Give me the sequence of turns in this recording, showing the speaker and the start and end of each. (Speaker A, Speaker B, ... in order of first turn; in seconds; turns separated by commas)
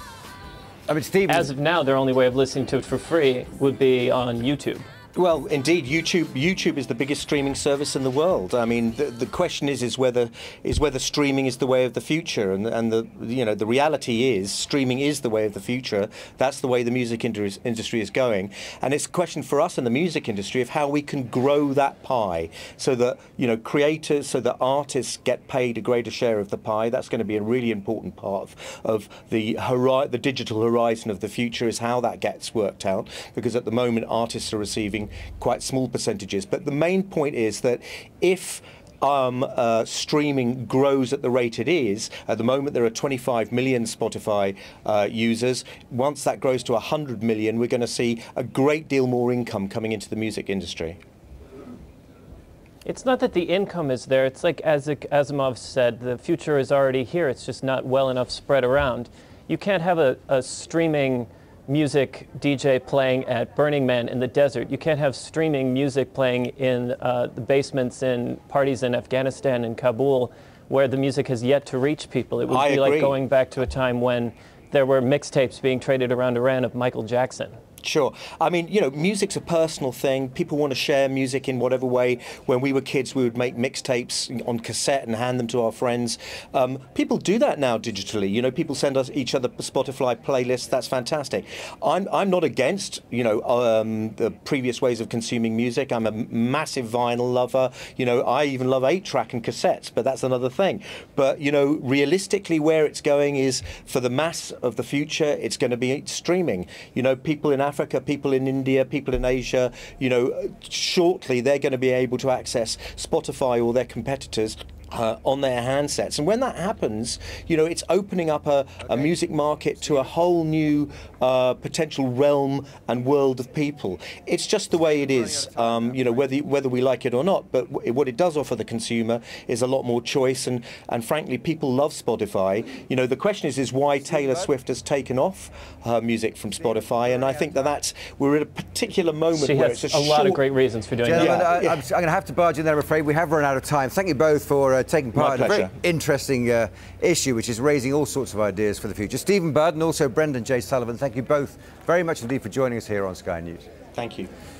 Speaker A: 0.9-1.5, Speaker B: 1.3-4.9, Speaker C: 5.1-51.0, Speaker B: 52.8-77.6, Speaker C: 72.5-73.2, Speaker C: 77.8-140.4, Speaker B: 139.3-141.4, Speaker A: 141.0-153.6, Speaker C: 141.1-141.8, Speaker C: 145.1-145.7, Speaker C: 153.9-154.3